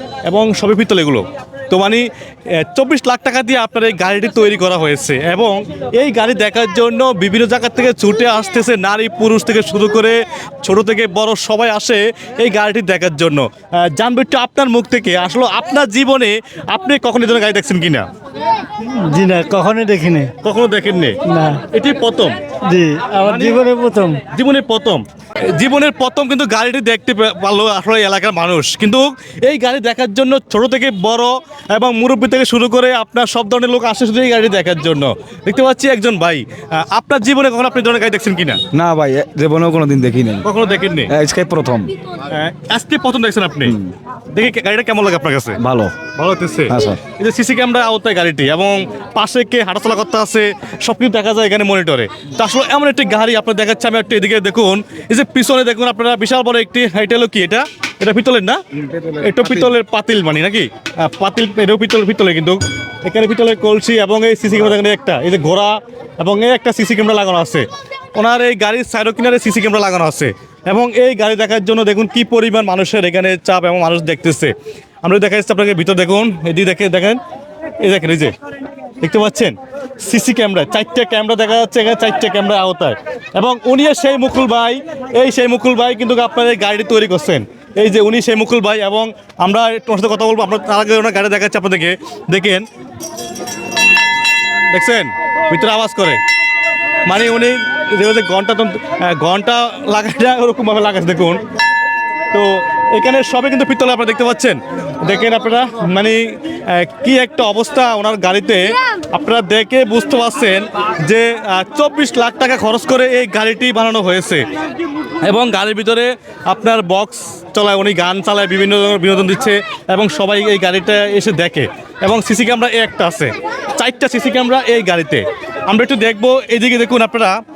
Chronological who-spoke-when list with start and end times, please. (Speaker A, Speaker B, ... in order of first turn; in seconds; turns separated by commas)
Speaker A: 0.3-18.0, Speaker B: 18.8-20.3, Speaker A: 20.4-22.4, Speaker B: 21.3-21.6, Speaker B: 22.6-24.2, Speaker A: 23.2-23.6, Speaker A: 24.2-38.6, Speaker C: 38.7-40.5, Speaker A: 40.4-41.1, Speaker C: 41.1-41.9, Speaker A: 42.3-43.7, Speaker C: 43.6-43.9, Speaker A: 44.3-45.6, Speaker C: 45.6-45.9, Speaker A: 46.1-58.6, Speaker C: 46.7-47.0, Speaker C: 58.9-59.7, Speaker A: 59.2-67.6, Speaker A: 68.2-74.5, Speaker A: 75.0-77.2, Speaker A: 77.8-78.3, Speaker A: 79.0-92.6, Speaker A: 94.7-96.2, Speaker A: 97.0-101.4, Speaker A: 102.3-114.4, Speaker A: 115.2-127.4